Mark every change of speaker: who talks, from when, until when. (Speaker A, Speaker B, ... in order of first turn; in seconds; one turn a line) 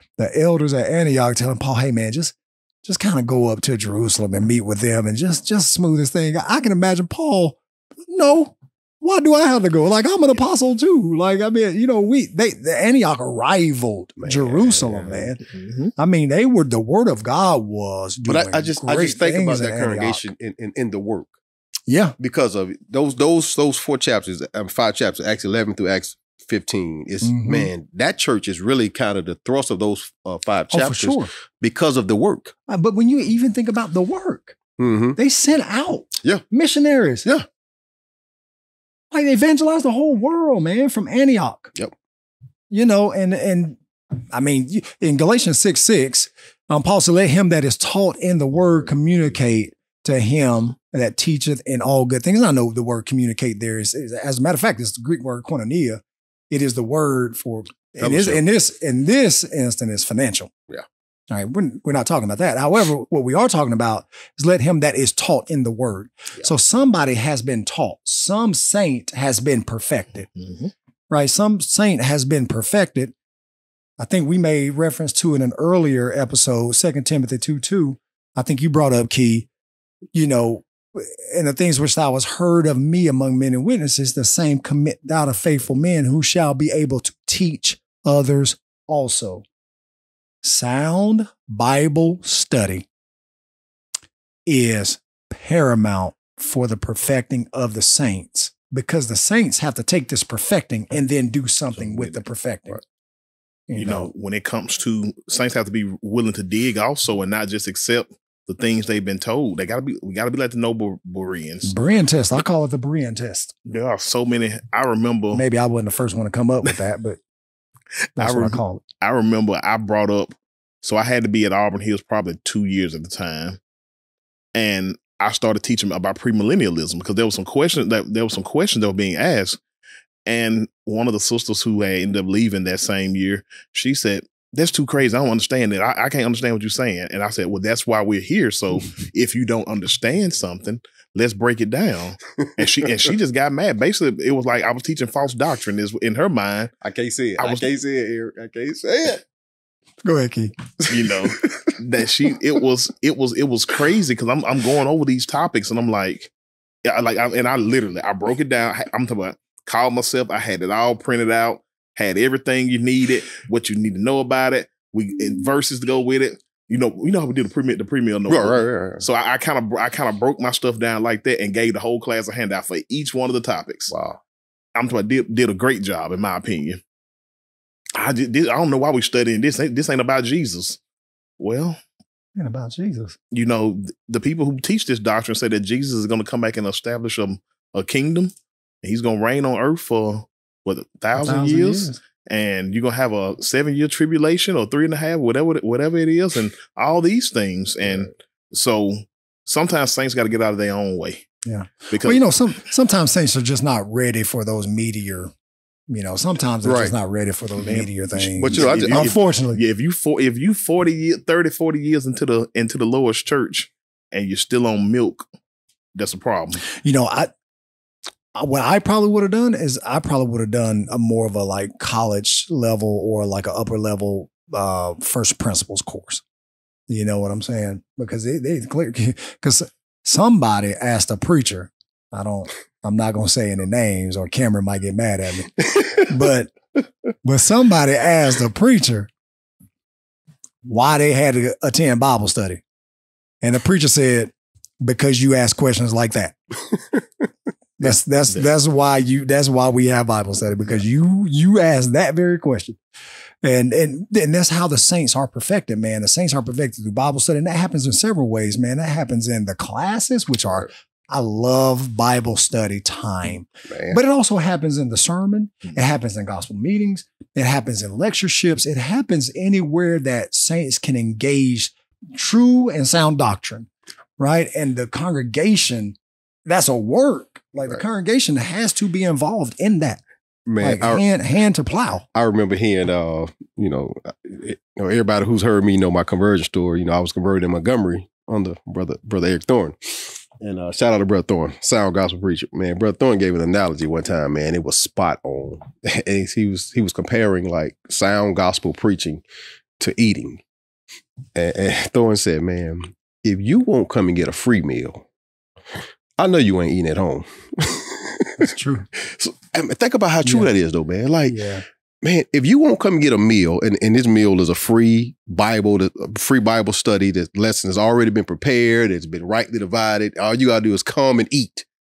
Speaker A: 0.2-20.3
Speaker B: 14.2-15.3
Speaker C: 15.6-15.9
Speaker B: 18.3-21.3
Speaker A: 21.9-22.2
Speaker B: 22.2-32.5
Speaker A: 27.2-27.7
Speaker A: 30.7-31.3
Speaker A: 32.7-34.6
Speaker B: 34.8-35.2
Speaker A: 35.2-37.3
Speaker A: 39.1-41.7
Speaker A: 42.7-60.5
Speaker B: 58.0-58.4
Speaker A: 61.3-70.3
Speaker C: 70.4-70.7
Speaker A: 71.1-73.1
Speaker A: 74.0-79.5
Speaker A: 80.1-89.5
Speaker A: 90.4-92.9
Speaker A: 94.5-102.8
Speaker C: 101.8-102.2
Speaker A: 103.7-104.1
Speaker C: 103.8-111.7
Speaker A: 111.6-113.5
Speaker C: 113.7-115.4
Speaker A: 115.3-117.2
Speaker A: 118.2-118.8
Speaker C: 118.2-123.6
Speaker C: 124.5-129.6
Speaker C: 130.3-146.7
Speaker B: 146.8-149.2
Speaker C: 147.4-147.7
Speaker A: 150.0-150.6
Speaker C: 150.9-156.3
Speaker C: 156.8-173.9
Speaker B: 168.3-169.1
Speaker B: 173.9-174.2
Speaker C: 174.8-176.8
Speaker C: 177.9-180.8
Speaker C: 181.4-181.8
Speaker A: 182.4-183.2
Speaker C: 183.3-201.3
Speaker A: 191.2-192.0
Speaker A: 201.4-205.3
Speaker C: 201.9-202.2
Speaker A: 205.9-209.6
Speaker B: 206.6-206.9
Speaker B: 208.3-209.1
Speaker C: 208.4-215.3
Speaker C: 215.9-216.6
Speaker A: 216.7-217.3
Speaker A: 218.3-226.2
Speaker A: 226.9-236.5
Speaker A: 237.2-239.1
Speaker A: 240.6-242.6
Speaker A: 243.4-246.4
Speaker A: 247.8-252.8
Speaker A: 253.4-280.0
Speaker B: 263.7-264.0
Speaker B: 280.5-281.0
Speaker A: 280.6-282.1
Speaker B: 282.1-299.2
Speaker B: 299.8-300.4
Speaker B: 301.4-305.1
Speaker B: 305.7-311.5
Speaker A: 308.4-308.9
Speaker A: 311.3-311.6
Speaker B: 312.0-321.7